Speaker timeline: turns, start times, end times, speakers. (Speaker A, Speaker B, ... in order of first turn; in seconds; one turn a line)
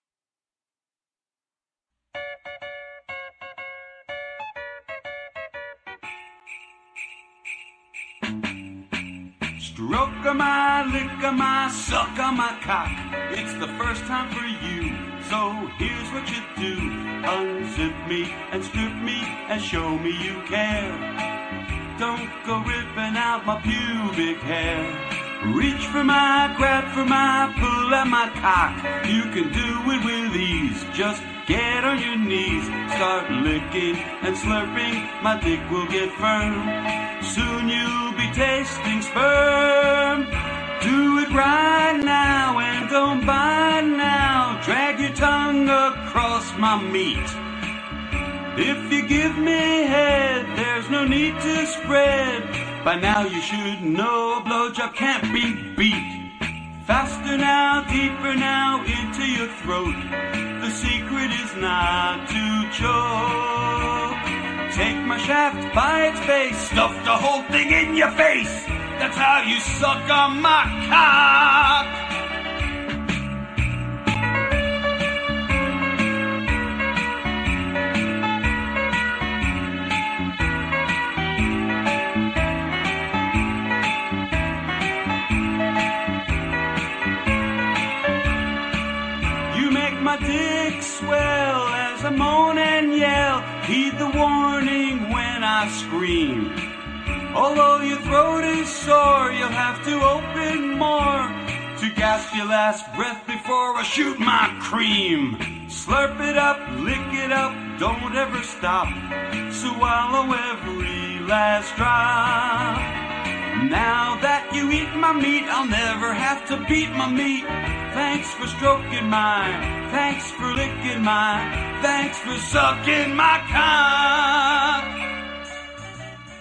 Speaker A: 9.6-21.1
Speaker A: 21.9-47.4
Speaker A: 48.5-72.0
Speaker A: 89.5-96.7
Speaker A: 97.3-125.0